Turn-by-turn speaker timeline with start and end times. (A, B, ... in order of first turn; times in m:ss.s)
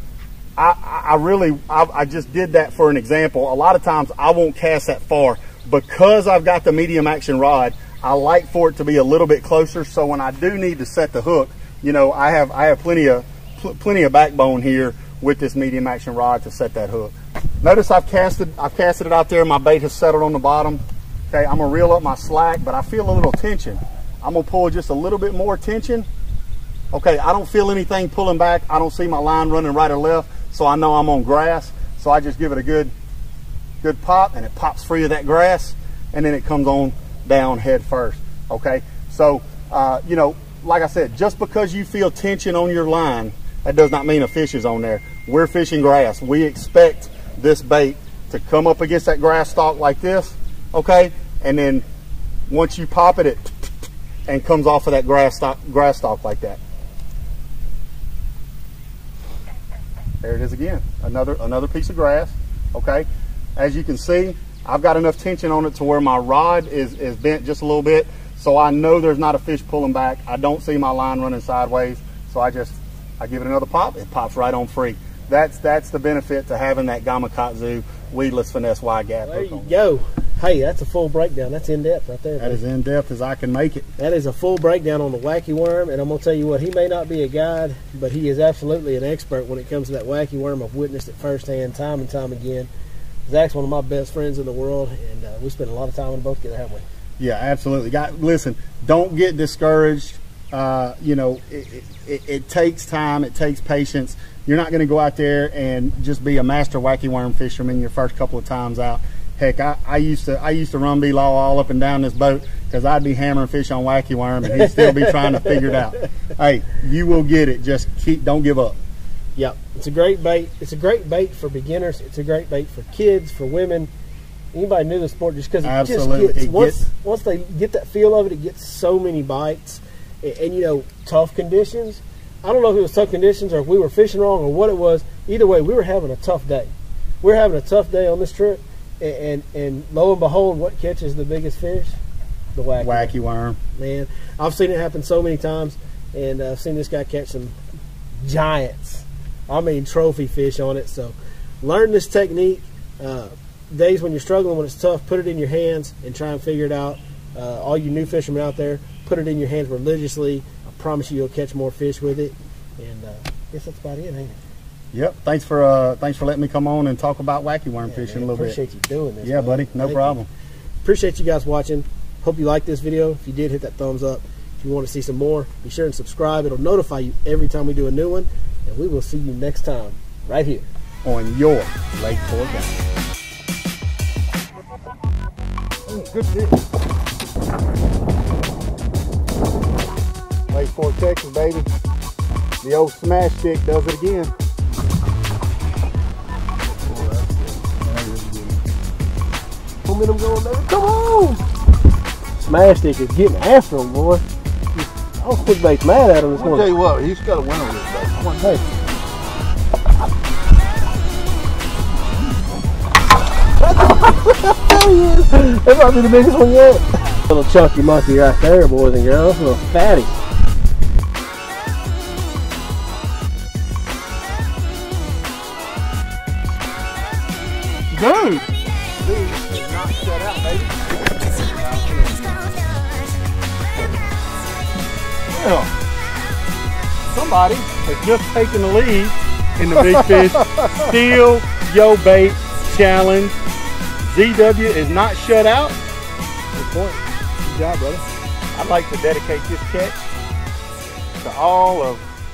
0:00.6-0:26.1 A
0:26.9-0:32.9 A
0:33.8-0:51.8 A
0:52.5-0:53.5 A
0:54.3-0:56.6 A
1:00.2-1:19.7 A
1:19.2-1:22.6 B
1:22.4-1:23.9 A
1:24.0-1:32.7 B
1:33.2-1:36.8 B
1:37.2-1:58.8 A
1:54.6-1:55.2 B
1:59.4-2:03.9 B
2:04.5-2:16.7 B
2:05.6-2:06.8 A
2:17.2-2:22.0 B
2:22.5-2:23.1 B
2:22.8-2:23.6 A
2:23.8-2:27.5 B
2:28.2-2:44.4 B
2:44.9-2:48.6 A
2:47.8-2:50.2 B
2:49.2-2:50.3 A
2:50.8-3:00.6 B
3:01.0-3:02.8 A
3:05.9-3:06.6 A
3:10.5-3:11.7 A
3:12.6-3:14.3 A
3:16.8-3:18.5 C
3:19.8-3:21.4 B
3:22.4-3:24.2 B
3:25.2-3:26.7 B
3:26.3-3:28.6 C
3:33.6-3:40.2 B
3:47.9-3:48.4 A
3:49.0-3:52.6 A
3:55.3-3:55.7 A
3:57.1-4:03.3 A
4:04.0-4:05.8 A
4:06.5-4:08.0 B
4:08.5-4:10.1 A
4:11.2-4:12.0 A